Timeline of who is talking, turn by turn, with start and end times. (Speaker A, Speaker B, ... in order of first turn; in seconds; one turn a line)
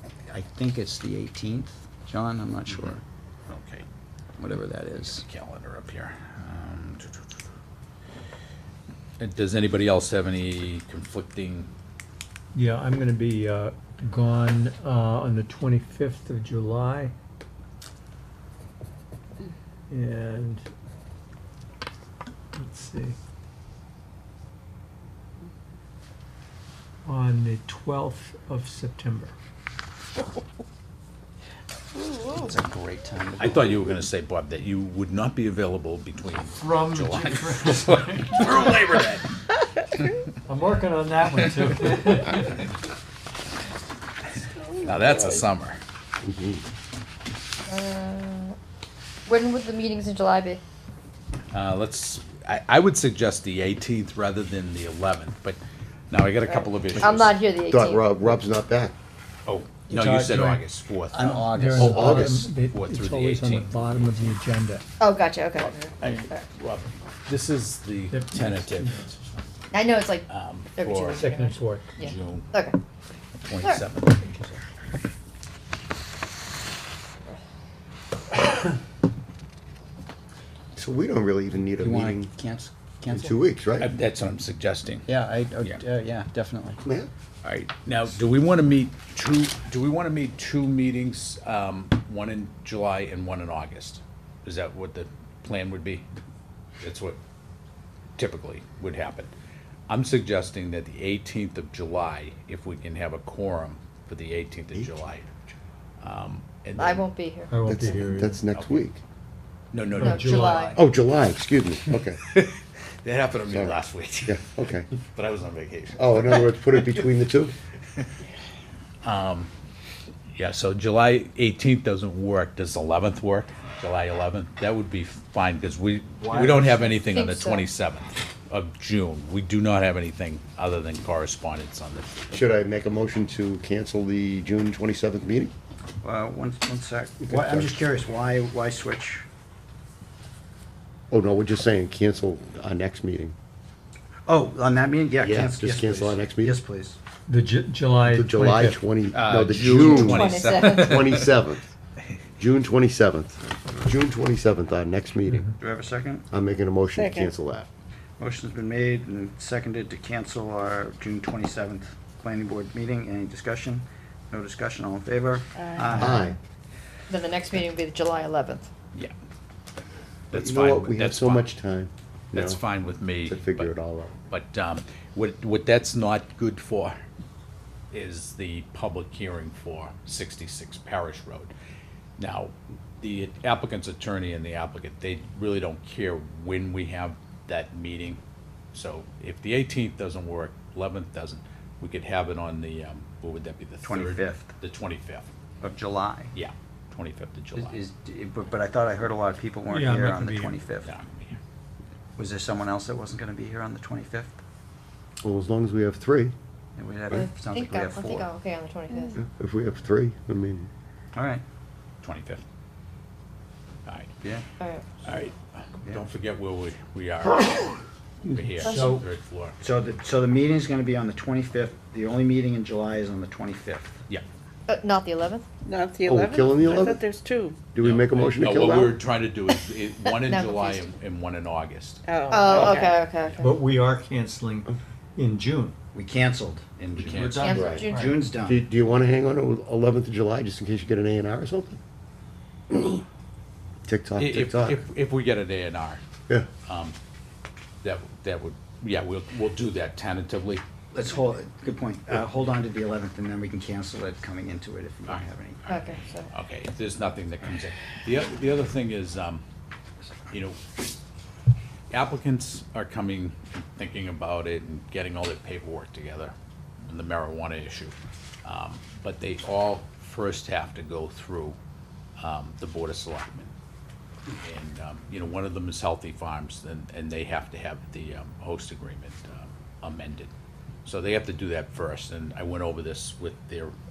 Speaker A: 0.3-3.0
Speaker B: 2.7-3.9
Speaker A: 4.4-5.3
Speaker B: 5.0-7.4
Speaker B: 9.2-11.7
Speaker C: 12.5-17.1
Speaker C: 19.9-20.6
Speaker C: 22.5-23.2
Speaker C: 27.1-29.3
Speaker A: 32.1-33.8
Speaker B: 33.4-39.3
Speaker C: 36.6-38.6
Speaker C: 40.5-42.7
Speaker B: 44.8-45.8
Speaker D: 46.2-46.6
Speaker E: 47.7-48.6
Speaker E: 49.3-50.6
Speaker B: 51.5-55.6
Speaker B: 56.1-57.4
Speaker E: 56.5-58.1
Speaker D: 57.7-58.9
Speaker B: 59.5-64.4
Speaker A: 59.9-62.4
Speaker C: 61.5-64.8
Speaker D: 61.8-62.3
Speaker E: 65.0-66.4
Speaker B: 65.6-68.9
Speaker C: 68.1-69.4
Speaker E: 69.7-72.8
Speaker B: 70.3-71.3
Speaker C: 71.1-72.0
Speaker B: 72.0-72.5
Speaker B: 73.4-74.3
Speaker C: 74.2-74.6
Speaker D: 80.8-82.3
Speaker A: 81.8-83.4
Speaker D: 83.1-83.9
Speaker B: 83.8-85.1
Speaker A: 85.1-86.8
Speaker D: 86.8-87.1
Speaker B: 87.4-96.1
Speaker B: 96.8-97.2
Speaker B: 98.2-99.3
Speaker B: 99.9-105.3
Speaker B: 106.0-107.1
Speaker E: 106.8-107.6
Speaker C: 107.5-108.4
Speaker D: 107.7-109.0
Speaker B: 108.5-108.9
Speaker B: 109.7-110.8
Speaker C: 109.9-110.7
Speaker E: 110.0-110.8
Speaker D: 110.8-112.2
Speaker B: 112.2-117.0
Speaker D: 113.5-114.9
Speaker D: 116.0-117.5
Speaker B: 119.0-119.5
Speaker B: 120.3-132.3
Speaker A: 126.2-127.1
Speaker E: 127.1-127.7
Speaker D: 132.3-135.5
Speaker A: 136.0-139.2
Speaker D: 137.2-137.9
Speaker D: 141.1-143.3
Speaker A: 144.3-147.0
Speaker D: 145.2-146.6
Speaker C: 147.3-148.9
Speaker D: 148.0-151.7
Speaker B: 149.1-151.3
Speaker E: 149.7-151.0
Speaker D: 152.4-155.5
Speaker A: 155.6-156.3
Speaker D: 156.3-157.7
Speaker F: 157.0-157.3
Speaker A: 158.2-166.3
Speaker F: 165.6-165.8
Speaker D: 165.9-166.4
Speaker E: 167.1-168.7
Speaker B: 170.3-171.5
Speaker D: 170.3-172.6
Speaker B: 172.3-173.7
Speaker D: 173.2-174.1
Speaker B: 174.3-177.0
Speaker B: 177.9-181.5
Speaker B: 182.2-188.2
Speaker B: 188.7-195.3
Speaker A: 193.8-194.5
Speaker A: 195.6-196.3
Speaker B: 196.3-197.8
Speaker A: 197.6-200.9
Speaker C: 199.7-200.6
Speaker B: 200.8-201.4
Speaker A: 202.2-204.4
Speaker D: 205.2-206.3
Speaker A: 206.8-208.3
Speaker E: 207.1-209.2
Speaker D: 209.2-210.7
Speaker A: 211.1-211.4
Speaker B: 212.0-212.4
Speaker B: 213.9-214.1
Speaker E: 214.6-214.9
Speaker B: 215.1-219.6
Speaker C: 218.5-219.1
Speaker E: 218.6-218.9
Speaker A: 219.6-224.0
Speaker E: 224.7-225.5
Speaker F: 225.7-227.6
Speaker D: 226.0-227.1
Speaker D: 227.7-229.0
Speaker B: 227.8-232.0
Speaker E: 230.2-230.9
Speaker F: 232.1-233.0
Speaker E: 232.3-233.5
Speaker B: 232.6-233.5
Speaker C: 233.4-235.8
Speaker A: 235.9-238.6
Speaker B: 237.0-237.4
Speaker C: 237.1-238.2
Speaker E: 237.4-238.1
Speaker D: 237.5-237.9
Speaker D: 238.4-241.8
Speaker D: 242.7-243.0
Speaker D: 243.9-244.8
Speaker B: 244.2-246.0
Speaker B: 246.7-247.0
Speaker B: 247.8-250.6
Speaker A: 250.9-255.6
Speaker B: 255.1-259.4
Speaker E: 255.7-256.3
Speaker B: 260.3-260.6
Speaker B: 261.9-266.3
Speaker B: 266.9-271.6
Speaker B: 272.2-273.5
Speaker B: 274.4-280.3
Speaker B: 280.9-283.8